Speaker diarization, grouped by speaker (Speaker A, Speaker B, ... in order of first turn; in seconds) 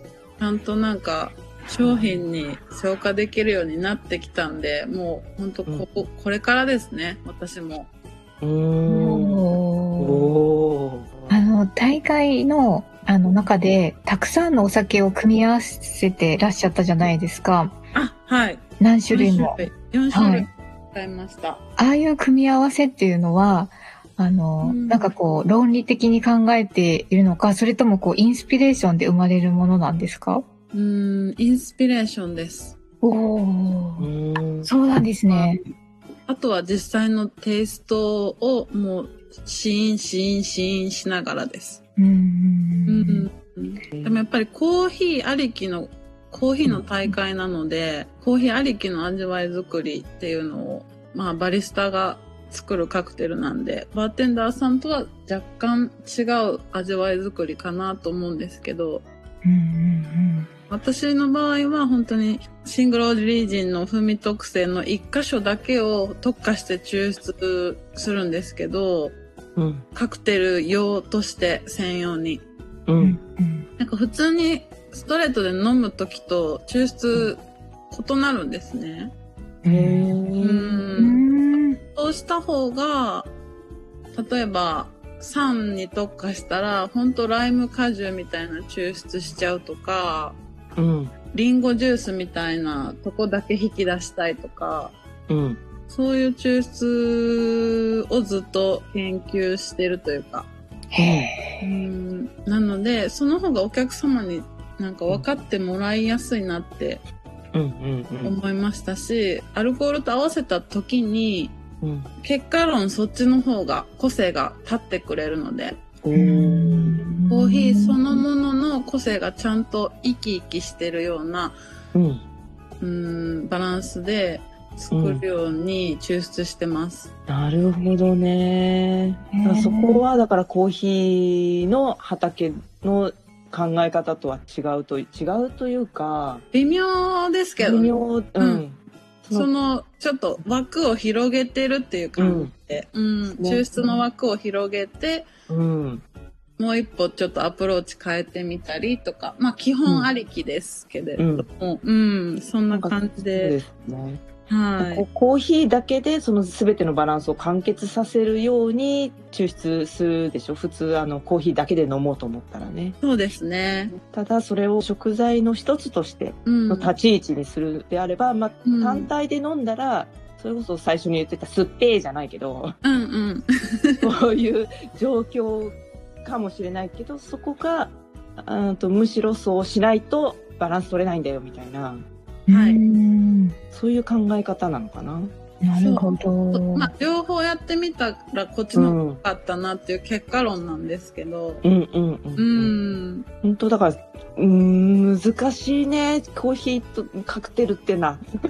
Speaker A: 0.4-7.9, 17.9-21.6, 24.6-25.1, 30.7-32.8, 35.3-35.5, 36.3-41.8, 42.9-59.0, 60.7-69.2, 69.9-72.4, 73.8-79.1, 80.4-81.2, 81.9-83.3, 84.1-90.4, 91.3-94.9, 95.9-100.5, 101.6-107.0, 108.2-111.5, 112.2-115.8, 117.3-121.5, 122.8-127.1, 136.5-138.6, 139.3-145.3, 146.6-153.6, 154.5-155.0, 163.0-163.9, 166.4-166.9, 168.6-169.1, 172.8-174.0, 182.5-182.8, 185.7-191.6, 192.4-193.2
Speaker B: 8.4-9.5, 10.0-11.4, 34.0-34.7, 43.9-44.2, 69.5-69.8, 72.9-73.2, 79.6-80.8, 90.8-91.1, 95.3-95.6, 101.0-101.3, 107.5-108.3, 111.8-112.1, 116.0-117.0, 121.9-122.2, 124.9-125.2, 127.3-136.4, 137.6-139.5, 142.2-142.5, 143.3-144.0, 145.5-146.0, 151.2-151.4, 152.7-154.2, 154.8-163.0, 164.1-172.8, 174.0-182.1, 183.7-185.3, 188.7-189.2, 191.6-192.7, 193.4-198.2
Speaker C: 8.9-10.3, 11.3-17.8, 18.8-20.5, 21.8-30.4, 33.0-34.1, 34.6-35.6, 42.0-43.3, 46.6-47.1, 59.4-60.5, 73.0-73.7, 79.6-80.1, 81.0-81.8, 100.9-101.7, 116.1-118.2, 129.3-130.0, 182.5-183.6, 185.6-186.9